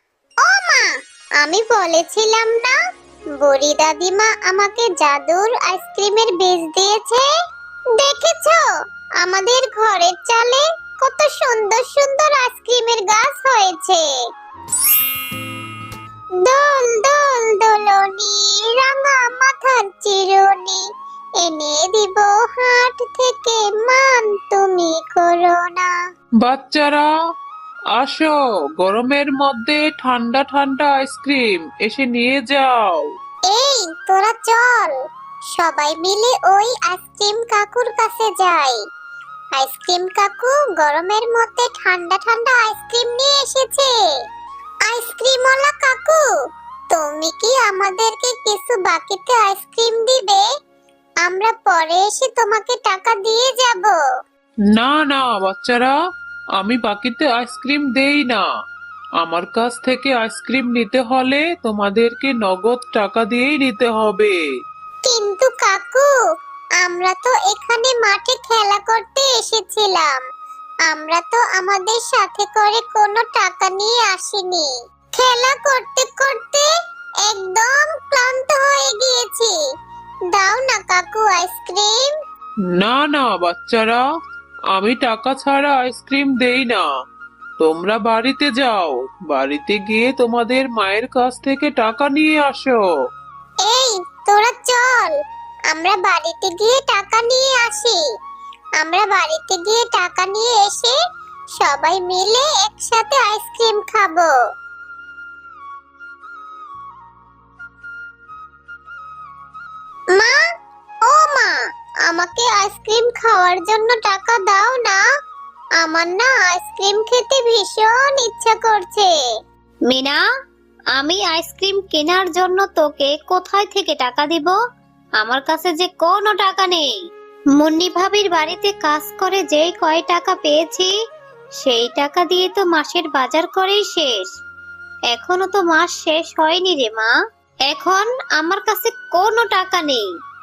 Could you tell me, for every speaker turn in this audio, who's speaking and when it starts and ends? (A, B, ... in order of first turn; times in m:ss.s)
0:00.4-0:00.9 A
0:01.4-0:02.8 A
0:03.4-0:07.2 A
0:08.0-0:08.6 A
0:09.2-0:14.0 A
0:16.4-0:20.8 A
0:21.4-0:25.9 A
0:26.4-0:27.1 B
0:28.0-0:33.0 B
0:33.5-0:34.9 A
0:35.5-0:38.8 A
0:39.5-0:43.9 A
0:44.8-0:46.2 A
0:46.9-0:50.4 A
0:51.2-0:54.0 A
0:54.7-0:55.9 B
0:56.6-0:58.4 B
0:59.2-1:04.4 B
1:05.0-1:06.1 A
1:06.8-1:10.2 A
1:10.9-1:16.7 A
1:17.2-1:19.5 A
1:20.3-1:22.1 A
1:22.7-1:24.0 B
1:24.7-1:26.8 B
1:27.6-1:32.8 B
1:33.6-1:35.1 A
1:35.7-1:38.0 A
1:38.8-1:41.0 A
1:41.6-1:44.3 A
1:51.1-1:51.5 A
1:52.0-1:55.0 A
1:55.8-1:59.1 A
1:59.9-2:00.2 C
2:00.9-2:04.6 C
2:05.2-2:07.0 C
2:07.6-2:10.9 C
2:11.6-2:14.3 C
2:15.1-2:17.1 C
2:17.7-2:20.1 C